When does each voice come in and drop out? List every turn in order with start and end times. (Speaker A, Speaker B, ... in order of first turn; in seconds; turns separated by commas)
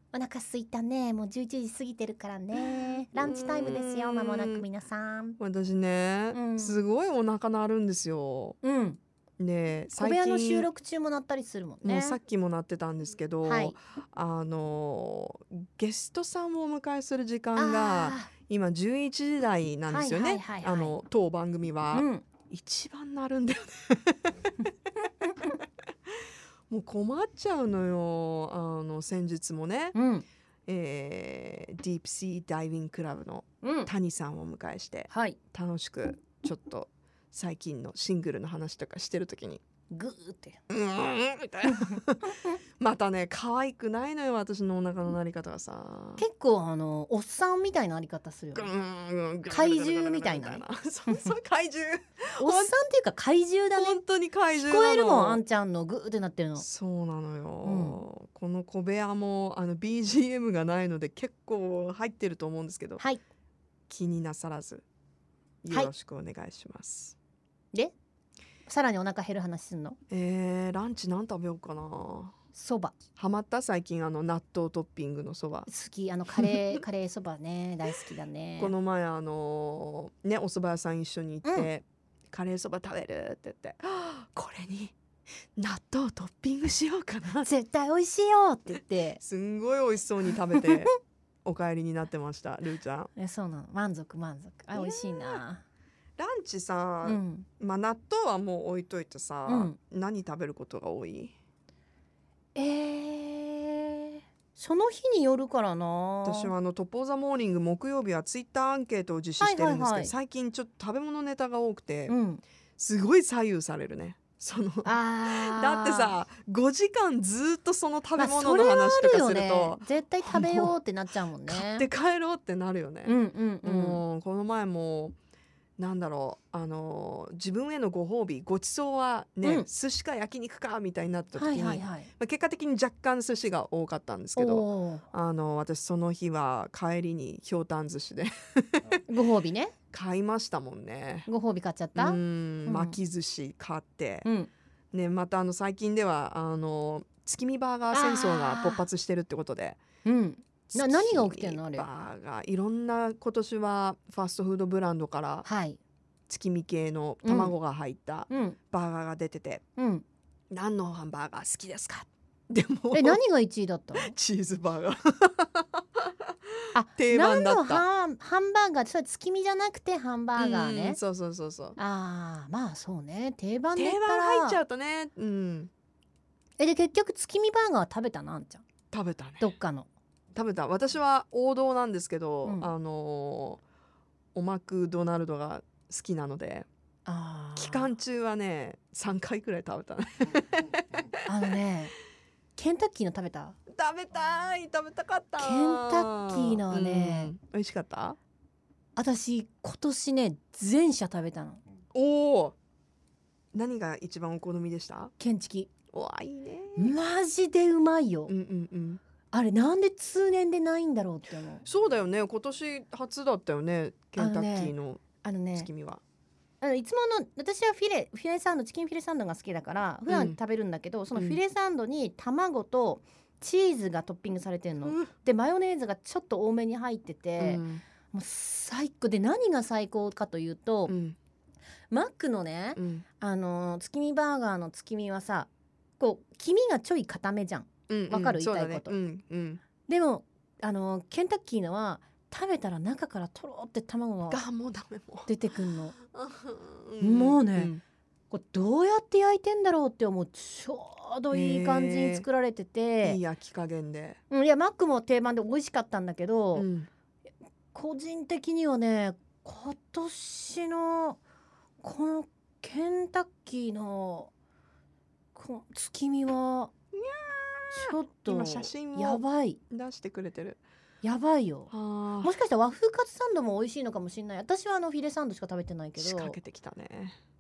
Speaker A: 0.1-5.4, Speaker B: 3.2-4.7, Speaker B: 5.4-8.6, Speaker A: 6.3-6.8, Speaker A: 8.6-9.0, Speaker B: 9.4-10.7, Speaker A: 9.9-12.2, Speaker B: 11.8-24.6, Speaker A: 13.4-13.8, Speaker A: 17.6-18.3, Speaker A: 19.9-20.9, Speaker A: 21.9-22.2, Speaker B: 26.7-29.9, Speaker A: 29.9-30.3, Speaker B: 30.7-39.6, Speaker A: 33.6-33.9, Speaker A: 35.1-35.4, Speaker A: 39.9-40.6, Speaker B: 40.7-46.2, Speaker A: 41.7-42.5, Speaker A: 46.2-48.7, Speaker B: 48.5-52.7, Speaker A: 49.5-51.3, Speaker A: 52.4-54.0, Speaker B: 53.8-55.4, Speaker A: 54.5-56.7, Speaker B: 56.6-63.0, Speaker A: 57.6-58.0, Speaker B: 63.9-64.8, Speaker B: 65.6-67.2, Speaker A: 68.7-70.0, Speaker B: 70.1-72.3, Speaker A: 72.5-73.0, Speaker B: 73.2-75.7, Speaker A: 75.7-78.7, Speaker B: 76.4-76.8, Speaker B: 78.6-85.0, Speaker B: 85.6-87.5, Speaker A: 87.4-89.2, Speaker B: 89.2-90.9, Speaker A: 90.5-90.9, Speaker B: 91.5-93.1, Speaker A: 93.2-95.6, Speaker B: 94.7-95.4, Speaker B: 96.2-101.3, Speaker A: 97.0-97.5, Speaker A: 99.5-99.8, Speaker A: 102.5-106.5, Speaker B: 106.2-112.2, Speaker A: 109.4-110.1, Speaker A: 112.1-112.4, Speaker B: 112.8-120.8, Speaker A: 114.8-116.2, Speaker A: 118.2-121.9, Speaker B: 121.5-125.2, Speaker A: 123.1-124.0, Speaker B: 125.8-139.0, Speaker A: 131.3-132.1, Speaker A: 134.4-135.1, Speaker A: 139.1-139.8, Speaker B: 139.9-141.3, Speaker A: 141.3-143.0, Speaker B: 142.0-144.3, Speaker A: 144.2-144.5, Speaker B: 144.9-149.8, Speaker A: 147.9-148.9, Speaker A: 150.0-151.9, Speaker B: 150.7-155.5, Speaker A: 155.4-155.8, Speaker B: 156.3-159.6, Speaker A: 157.2-157.5, Speaker A: 158.3-158.6, Speaker A: 159.8-160.1, Speaker B: 160.5-163.2, Speaker A: 162.9-164.2, Speaker B: 164.0-166.3, Speaker A: 166.7-171.0, Speaker B: 167.0-167.8, Speaker B: 170.4-171.8, Speaker A: 171.8-174.6, Speaker B: 173.8-175.7, Speaker A: 176.6-178.7, Speaker B: 178.9-179.5, Speaker A: 179.4-179.9, Speaker B: 180.3-183.6, Speaker B: 184.3-186.7, Speaker A: 187.1-187.9, Speaker B: 187.6-191.2, Speaker A: 191.3-191.9, Speaker A: 192.6-193.6, Speaker B: 193.7-198.2, Speaker A: 195.4-197.3, Speaker A: 199.0-201.6, Speaker B: 201.9-202.6, Speaker B: 203.5-205.1, Speaker A: 205.2-205.7, Speaker B: 205.9-206.9, Speaker A: 206.8-208.3, Speaker B: 208.3-209.0, Speaker A: 209.3-211.6, Speaker B: 211.7-216.0, Speaker A: 214.2-215.7, Speaker A: 216.6-230.9, Speaker B: 220.1-220.4, Speaker B: 224.8-225.1, Speaker B: 227.4-227.8, Speaker B: 230.9-231.2, Speaker A: 231.9-235.5, Speaker B: 232.8-233.1, Speaker A: 236.0-238.9, Speaker B: 237.9-239.6, Speaker A: 239.9-244.4, Speaker B: 244.3-245.3, Speaker A: 245.3-245.9, Speaker B: 246.0-247.8, Speaker A: 247.0-247.7, Speaker A: 248.3-253.2, Speaker B: 251.3-252.3, Speaker B: 253.0-254.2, Speaker A: 254.3-256.7, Speaker B: 256.6-256.9, Speaker A: 257.7-261.2, Speaker A: 261.8-264.3, Speaker A: 265.4-266.7, Speaker B: 266.9-270.6, Speaker A: 267.7-269.6, Speaker A: 271.0-271.7, Speaker B: 271.7-272.3, Speaker A: 272.2-276.4, Speaker B: 276.0-277.2